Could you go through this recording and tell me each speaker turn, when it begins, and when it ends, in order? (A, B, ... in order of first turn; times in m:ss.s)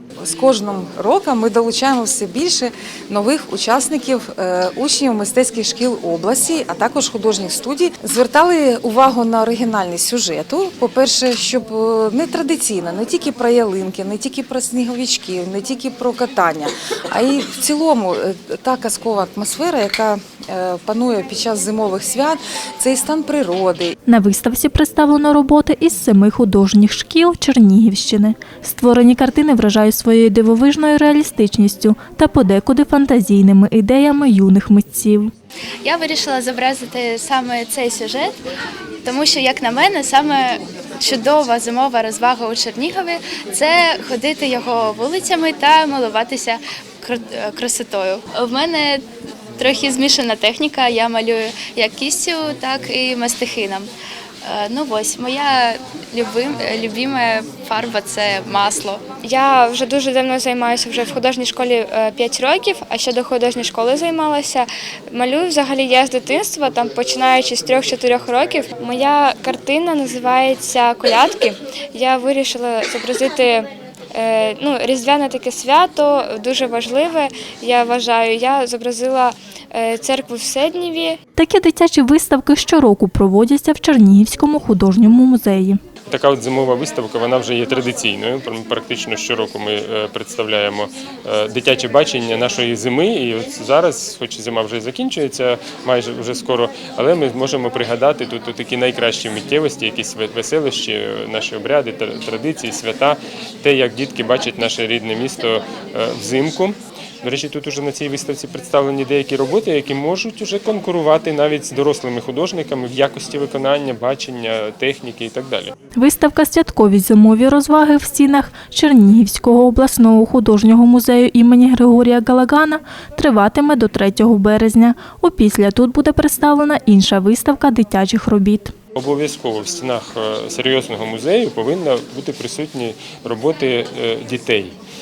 0:00.2-0:23.9 A
0:24.0-0:35.3 B
0:35.8-0:38.3 C
0:39.0-0:49.0 C
0:49.6-0:53.8 C
0:54.4-0:59.0 C
0:59.2-1:21.2 D
1:21.4-1:25.8 B
1:26.1-1:55.7 E
1:56.0-2:08.7 B
2:08.9-2:14.8 E